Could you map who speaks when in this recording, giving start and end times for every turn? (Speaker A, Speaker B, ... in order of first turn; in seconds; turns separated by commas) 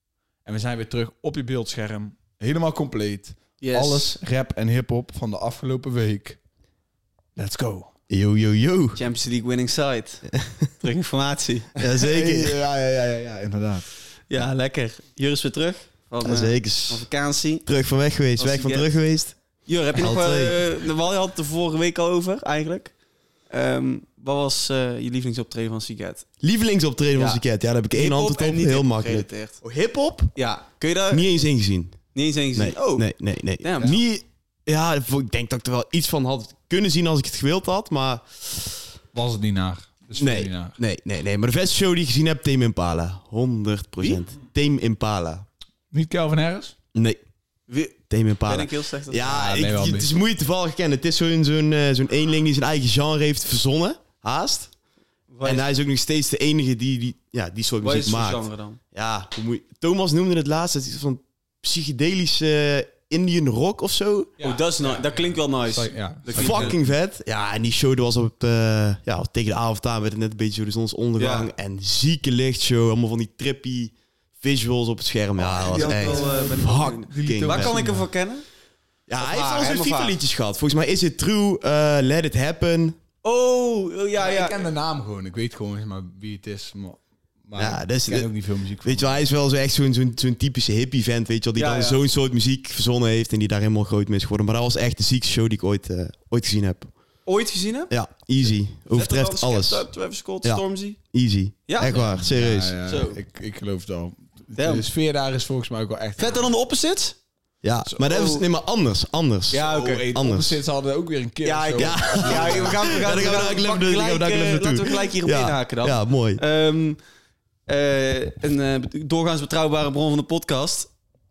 Speaker A: 0.4-6.4, Speaker B: 3.6-4.1, Speaker A: 7.3-7.9, Speaker C: 8.1-9.0, Speaker B: 8.9-11.7, Speaker C: 11.8-12.6, Speaker A: 11.8-13.9, Speaker B: 14.3-17.7, Speaker C: 16.2-17.1, Speaker C: 17.6-19.4, Speaker B: 18.4-18.9, Speaker B: 19.6-22.9, Speaker C: 19.9-20.6, Speaker B: 23.5-26.2, Speaker C: 26.4-30.3, Speaker B: 27.1-29.6, Speaker B: 30.3-31.3, Speaker C: 31.1-32.0, Speaker B: 32.1-34.0, Speaker C: 32.5-38.8, Speaker A: 39.1-40.8, Speaker C: 40.2-45.5, Speaker A: 45.9-46.7, Speaker C: 46.9-47.2, Speaker B: 47.7-49.2, Speaker C: 48.1-54.7, Speaker A: 49.2-50.2, Speaker B: 55.3-55.6, Speaker C: 55.4-64.3, Speaker B: 57.8-58.8, Speaker A: 64.4-66.7, Speaker B: 64.4-66.8, Speaker C: 66.3-77.7, Speaker B: 71.2-71.5, Speaker A: 75.4-78.1, Speaker B: 75.5-78.4, Speaker C: 79.1-83.0, Speaker B: 79.2-80.2, Speaker B: 83.2-84.6, Speaker A: 84.2-89.2, Speaker C: 87.5-88.3, Speaker C: 88.8-96.9, Speaker B: 91.5-92.0, Speaker B: 97.2-97.9, Speaker C: 97.9-99.9, Speaker B: 98.9-101.0, Speaker C: 100.4-102.8, Speaker B: 101.7-102.1, Speaker A: 101.8-106.5, Speaker B: 102.8-103.2, Speaker B: 104.5-104.8, Speaker B: 106.2-107.2, Speaker C: 107.6-110.5, Speaker B: 108.0-108.4, Speaker B: 109.5-110.0, Speaker A: 109.5-113.0, Speaker B: 111.4-117.0, Speaker C: 111.8-116.4, Speaker B: 117.7-120.9